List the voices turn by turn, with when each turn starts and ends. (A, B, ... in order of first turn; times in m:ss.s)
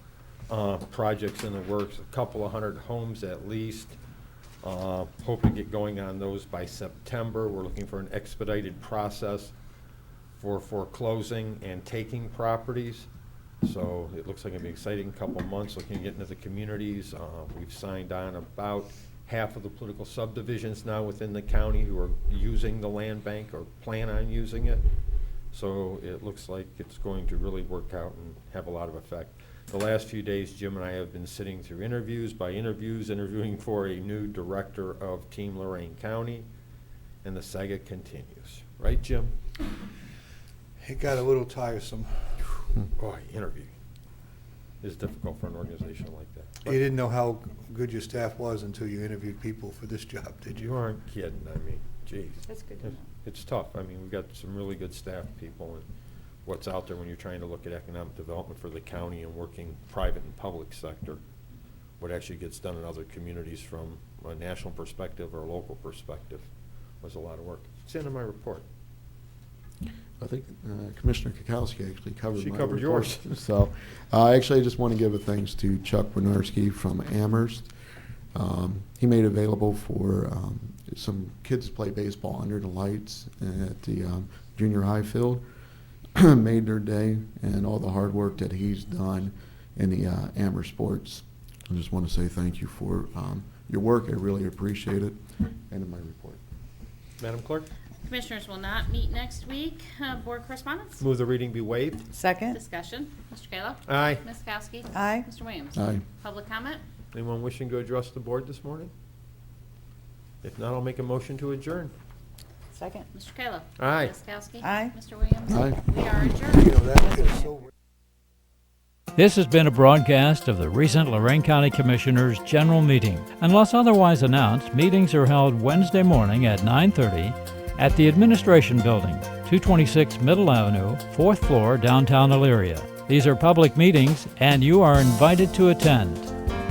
0:00.5-0:04.0 A
0:04.6-0:09.5 A
0:10.4-0:13.1 A
0:13.6-0:24.9 A
0:25.5-0:36.5 A
0:37.2-0:39.3 A
0:40.8-0:42.1 B
0:43.0-0:43.7 A
0:44.8-0:46.9 A
0:46.7-0:50.6 B
0:50.6-0:55.9 A
0:52.5-0:53.0 C
0:56.5-1:01.2 A
1:02.0-1:06.5 A
1:07.0-1:08.6 A
1:10.2-1:17.7 D
1:12.3-1:13.3 A
1:18.3-1:25.4 D
1:26.2-1:36.4 D
1:37.2-1:37.7 A
1:38.1-1:41.0 E
1:41.0-1:42.1 A
1:42.1-1:42.6 C
1:42.5-1:46.8 E
1:43.9-1:44.2 A
1:44.9-1:45.3 C
1:45.7-1:46.0 D
1:47.1-1:48.9 A
1:50.4-1:51.9 A
1:52.7-1:53.1 C
1:53.1-1:56.7 E
1:53.8-1:54.2 A
1:54.6-1:55.0 C
1:55.5-1:55.8 D
1:56.6-1:57.6 B
1:59.2-2:16.3 F